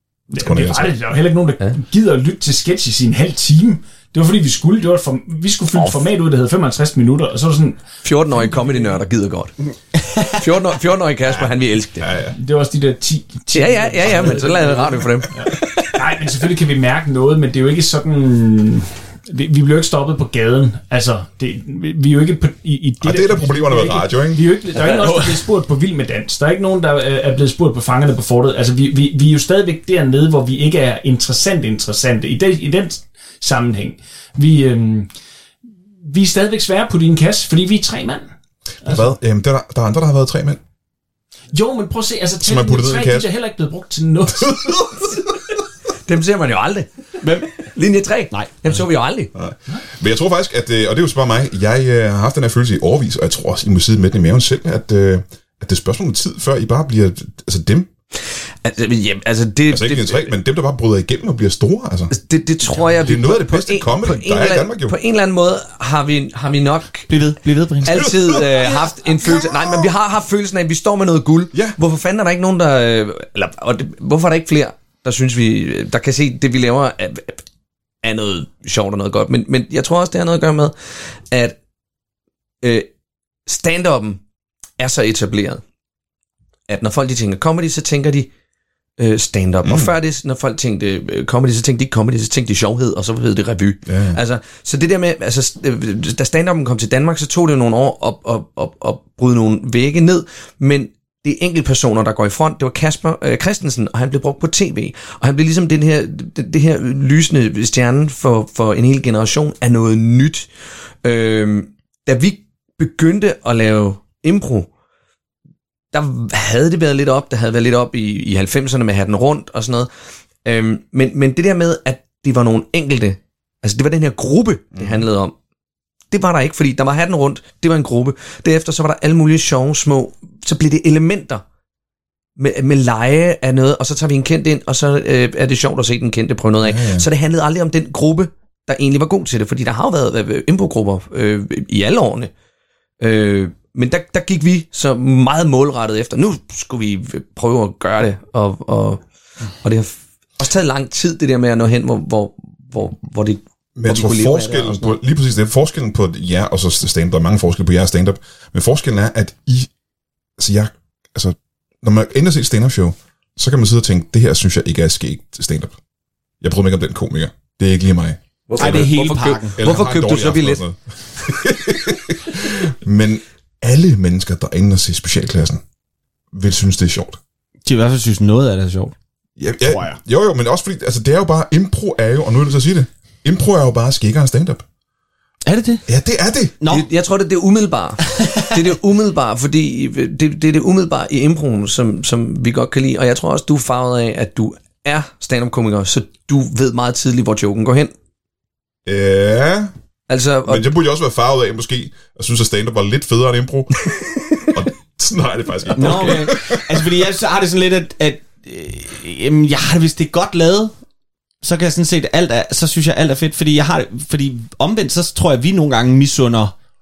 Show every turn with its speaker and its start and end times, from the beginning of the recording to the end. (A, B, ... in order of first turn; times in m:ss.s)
0:00.3-0:07.8 A
0:00.3-0:01.0 B
0:05.8-0:06.0 C
0:08.0-0:09.5 C
0:09.9-0:10.4 D
0:10.3-0:12.1 C
0:12.0-0:12.4 B
0:12.4-0:35.1 A
0:13.5-0:16.2 C
0:23.0-0:24.4 B
0:24.8-0:25.4 D
0:36.0-0:38.3 A
0:38.8-0:40.6 B
0:41.5-0:44.8 A
0:42.4-0:43.3 B
0:44.4-0:45.0 B
0:46.0-0:46.9 C
0:47.2-0:47.5 D
0:47.6-0:49.3 C
0:48.3-0:48.8 D
0:49.4-0:57.9 B
0:58.3-1:00.3 C
0:59.7-1:02.1 B
1:02.1-1:07.1 C
1:03.0-1:05.0 B
1:07.1-1:08.1 D
1:07.8-1:17.4 C
1:08.0-1:08.7 B
1:09.2-1:09.9 B
1:18.0-1:20.7 C
1:21.3-1:21.6 C
1:22.6-1:22.9 C
1:23.5-1:24.2 C
1:24.8-1:25.6 C
1:26.7-1:28.3 C
1:29.0-1:50.5 C
1:29.6-1:29.9 B
1:33.9-1:34.2 B
1:51.0-1:54.7 C
1:55.9-1:59.9 C
2:00.4-2:05.3 C
2:04.8-2:05.0 B
2:06.1-2:11.4 C
2:12.4-2:22.3 C
2:16.6-2:17.1 B
2:23.0-2:29.0 C
2:29.6-2:35.0 C
2:33.8-2:39.7 B
2:40.4-2:45.8 B
2:46.4-2:48.9 B
2:48.5-2:50.6 C
2:48.6-2:49.6 D
2:49.6-2:55.6 B
2:56.3-2:57.2 B
2:57.6-2:58.9 D
2:59.4-3:04.6 B
2:59.6-3:00.0 D
3:05.5-3:05.8 D
3:05.9-3:06.6 B
3:06.6-3:06.9 D
3:06.7-3:17.9 C
3:08.1-3:08.7 D
3:18.9-3:19.7 B
3:20.1-3:20.7 C
3:20.5-3:26.9 B
3:25.7-3:30.7 D
3:25.8-3:26.2 C
3:31.4-3:36.5 D